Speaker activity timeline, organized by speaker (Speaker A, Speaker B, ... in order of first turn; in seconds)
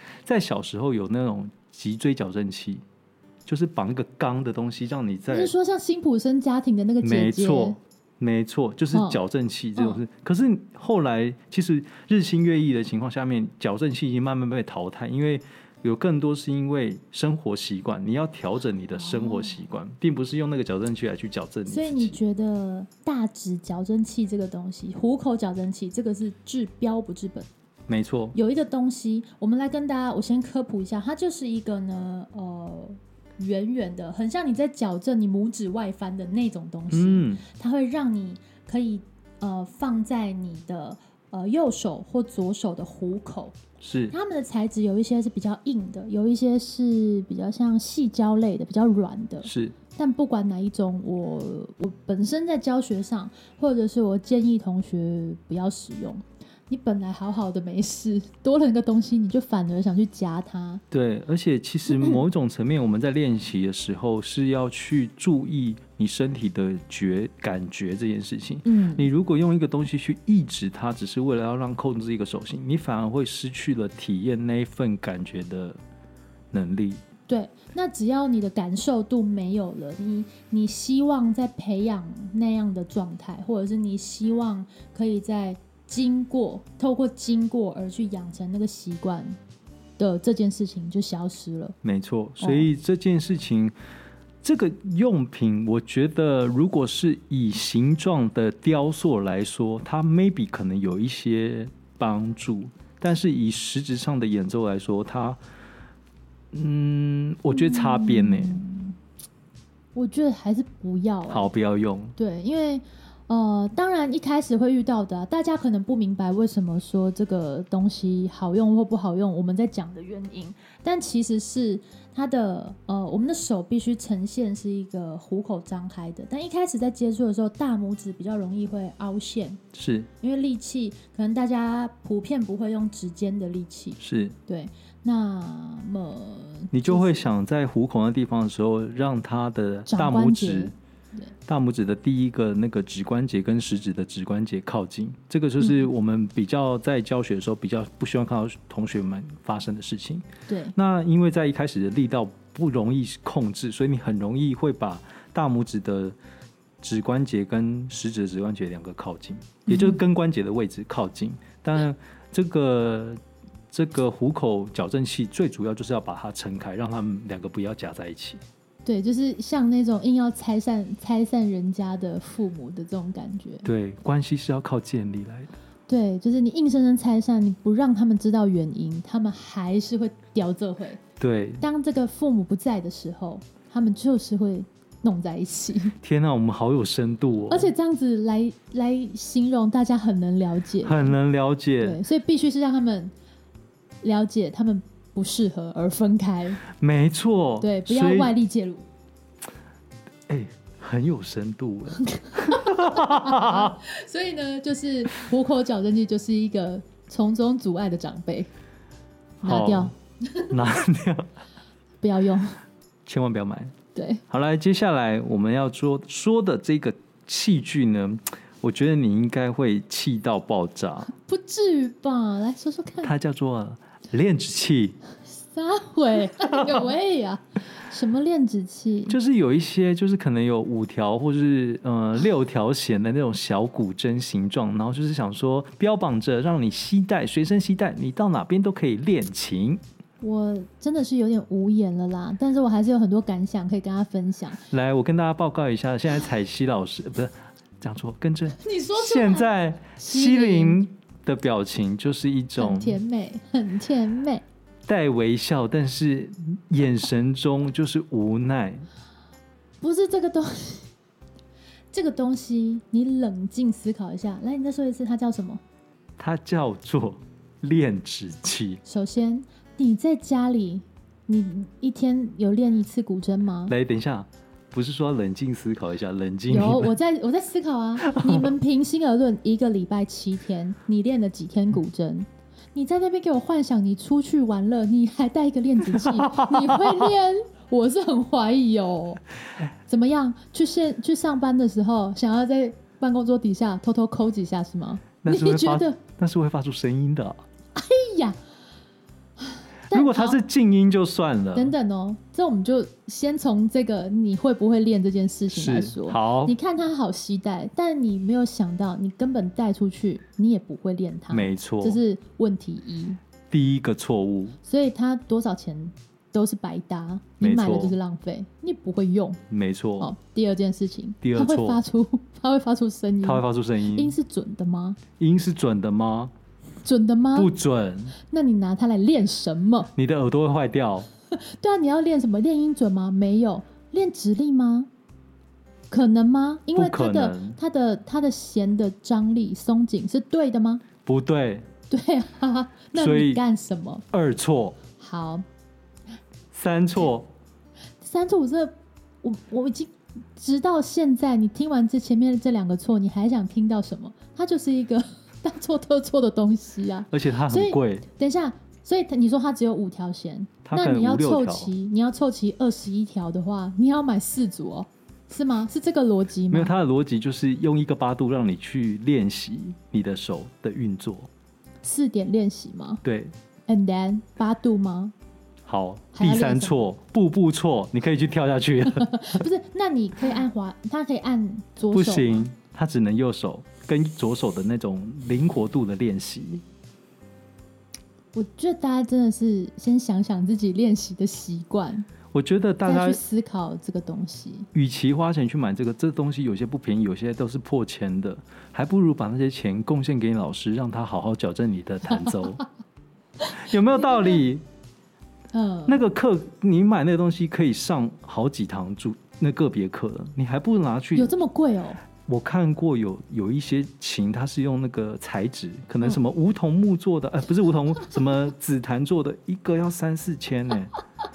Speaker A: 0.2-2.8, 3.5-5.5, 7.0-22.2, 27.9-28.4, 36.9-37.4, 43.8-44.1, 49.4-49.8, 60.9-75.8, 76.5-77.0, 91.8-93.7, 94.4-105.4, 106.5-108.6, 111.3-112.1, 129.7-130.1, 134.0-134.3, 136.7-140.7, 141.5-156.2, 156.8-163.2, 163.7-168.4, 173.6-175.5, 181.2-181.6, 186.0-187.7, 190.8-192.0, 196.7-198.3, 200.3-203.8, 209.4-209.9, 210.5-211.3, 213.1-213.7, 214.3-221.1, 223.0-225.0, 226.4-226.8, 229.1-239.8, 244.7-253.0, 254.8-258.9, 266.2-268.8, 273.7-276.9, 278.0-278.5, 285.9-287.1, 295.2-297.4, 299.9-301.7, 305.5-306.6, 311.3-312.0, 313.5-314.6, 317.4-318.0, 319.5-320.1, 321.2-321.8, 323.2-324.1, 325.2-326.3, 327.3-328.1, 329.9-331.1, 336.7-337.6, 341.0-341.7, 342.9-343.4, 344.1-344.8, 346.5-347.3, 357.1-358.0, 360.6-361.7, 366.5-371.3, 373.0-373.3, 375.6-379.4, 381.9-386.6, 392.3-393.2, 394.7-402.6, 403.5-404.6, 405.9-411.3, 412.2-420.9
Speaker B: 5.3-7.8, 8.9-9.2, 19.0-19.6, 21.7-27.5, 28.3-43.6, 44.1-60.8, 61.9-62.2, 68.6-69.1, 77.3-89.4, 90.0-91.8, 92.4-92.7, 107.5-109.0, 109.9-111.5, 112.2-129.6, 130.2-137.2, 139.9-141.3, 145.6-145.8, 150.5-150.7, 159.7-160.0, 168.8-173.7, 175.9-181.0, 181.6-185.9, 187.5-191.2, 191.8-193.1, 194.0-196.6, 197.6-198.8, 202.1-208.5, 209.4-210.5, 212.0-212.6, 213.9-214.2, 221.1-223.1, 225.2-229.2, 240.2-244.6, 248.6-250.8, 252.6-254.4, 259.8-260.9, 261.9-265.6, 268.9-273.7, 276.5-289.2, 289.8-296.0, 297.7-298.4, 299.4-300.4, 301.5-313.2, 314.6-319.4, 320.0-325.0, 326.8-327.5, 328.2-329.9, 331.3-334.9, 335.9-340.8, 341.9-344.0, 345.0-345.4, 348.0-366.7, 371.8-373.0, 373.7-375.1, 376.1-376.8, 378.9-382.5, 388.3-392.1, 392.8-394.7, 402.1-402.6, 403.4-404.4, 405.5-406.0, 411.1-412.0